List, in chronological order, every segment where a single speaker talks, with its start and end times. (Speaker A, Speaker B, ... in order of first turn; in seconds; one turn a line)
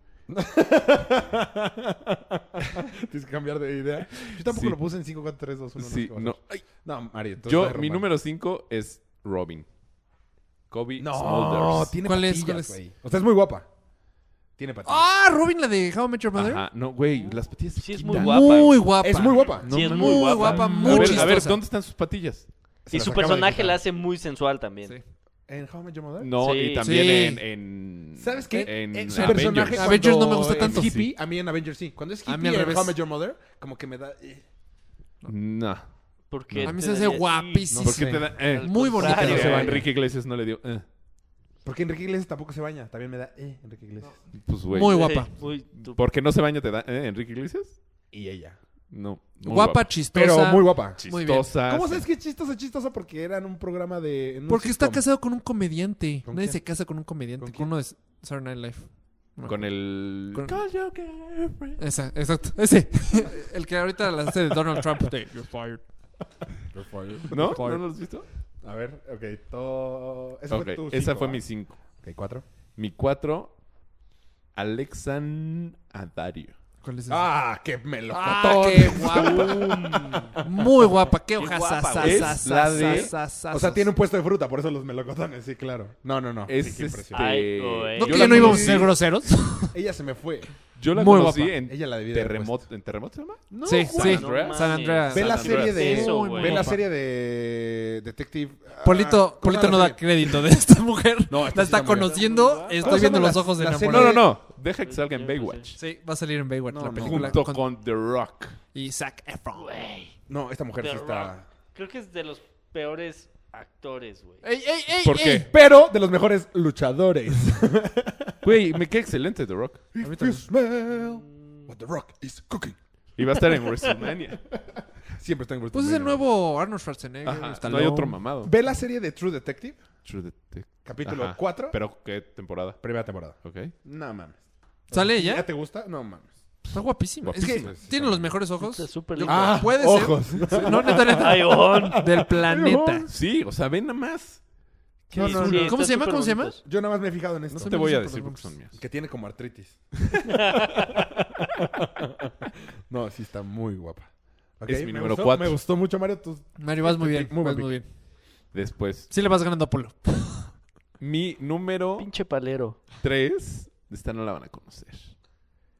Speaker A: 0.3-8.1
Speaker B: 4.2-4.8
Speaker B: 5.8-6.7
Speaker B: 7.4-9.7
Speaker B: 10.7-12.0
Speaker A: 11.0-13.7
Speaker C: 12.0-12.8
Speaker A: 14.6-15.1
Speaker C: 14.8-16.6
Speaker B: 16.4-18.8
Speaker D: 17.8-18.8
Speaker C: 18.1-21.6
Speaker A: 19.0-21.4
Speaker B: 19.6-22.5
Speaker D: 19.7-21.4
Speaker A: 22.9-23.8
Speaker D: 22.9-25.0
Speaker A: 25.5-26.4
Speaker B: 26.2-31.1
Speaker D: 26.4-27.0
Speaker C: 26.8-27.4
Speaker A: 28.2-34.5
Speaker C: 28.5-31.1
Speaker C: 32.3-33.0
Speaker B: 35.3-35.9
Speaker D: 36.3-37.8
Speaker B: 36.5-36.8
Speaker C: 36.7-39.8
Speaker A: 37.7-39.9
Speaker B: 37.8-40.9
Speaker D: 38.3-39.9
Speaker A: 41.6-44.2
Speaker B: 44.3-47.8
Speaker C: 44.7-45.3
Speaker D: 44.8-46.0
Speaker A: 48.1-48.6
Speaker B: 48.9-49.9
Speaker C: 49.4-51.5
Speaker A: 50.1-55.1
Speaker B: 51.0-52.0
Speaker C: 54.5-60.6
Speaker A: 56.2-56.6
Speaker A: 57.4-57.7
Speaker B: 59.5-61.8
Speaker C: 61.8-65.9
Speaker A: 66.7-67.8
Speaker B: 67.3-68.3
Speaker C: 67.4-67.9
Speaker A: 68.6-72.4
Speaker B: 70.5-71.8
Speaker B: 72.8-73.6
Speaker B: 74.5-76.5
Speaker C: 76.8-77.3
Speaker A: 77.1-80.9
Speaker C: 78.1-79.7
Speaker D: 79.1-80.3
Speaker C: 80.4-83.9
Speaker D: 81.4-83.0
Speaker B: 82.0-83.1
Speaker A: 83.5-87.3
Speaker B: 86.5-89.0
Speaker D: 87.1-88.7
Speaker C: 88.0-89.8
Speaker A: 88.1-90.5
Speaker B: 90.8-96.0
Speaker C: 90.9-91.6
Speaker A: 91.6-92.7
Speaker A: 93.5-94.4
Speaker C: 93.6-96.8
Speaker D: 93.9-96.7
Speaker A: 95.1-100.5
Speaker C: 98.8-104.2
Speaker A: 101.3-104.3
Speaker D: 101.8-103.2
Speaker B: 103.8-105.8
Speaker D: 104.8-105.7
Speaker C: 105.8-107.7
Speaker A: 106.7-107.4
Speaker B: 107.0-108.6
Speaker C: 108.7-109.7
Speaker D: 109.6-110.2
Speaker A: 110.3-111.4
Speaker D: 110.8-114.4
Speaker C: 114.4-115.5
Speaker B: 115.0-115.5
Speaker A: 115.5-118.4
Speaker B: 118.4-119.9
Speaker A: 119.9-122.8
Speaker C: 120.0-120.5
Speaker D: 121.0-121.7
Speaker B: 123.2-124.5
Speaker A: 125.1-126.2
Speaker C: 125.7-128.2
Speaker B: 127.2-128.5
Speaker A: 128.4-129.8
Speaker B: 130.0-132.8
Speaker A: 130.8-131.8
Speaker A: 132.8-136.4
Speaker B: 133.4-133.7
Speaker C: 134.9-135.5
Speaker C: 136.7-143.1
Speaker B: 137.2-137.7
Speaker A: 137.4-138.3
Speaker D: 138.6-139.8
Speaker A: 139.2-143.1
Speaker D: 140.8-142.1
Speaker B: 143.1-144.4
Speaker A: 145.1-145.8
Speaker D: 145.1-146.6
Speaker C: 145.2-146.6
Speaker A: 146.7-147.7
Speaker C: 147.6-148.6
Speaker B: 147.6-148.8
Speaker A: 148.7-157.7
Speaker D: 150.3-151.0
Speaker B: 154.7-155.6
Speaker C: 156.6-157.9
Speaker B: 158.5-159.1
Speaker C: 159.1-160.5
Speaker B: 161.0-162.1
Speaker D: 162.0-162.8
Speaker B: 163.0-165.1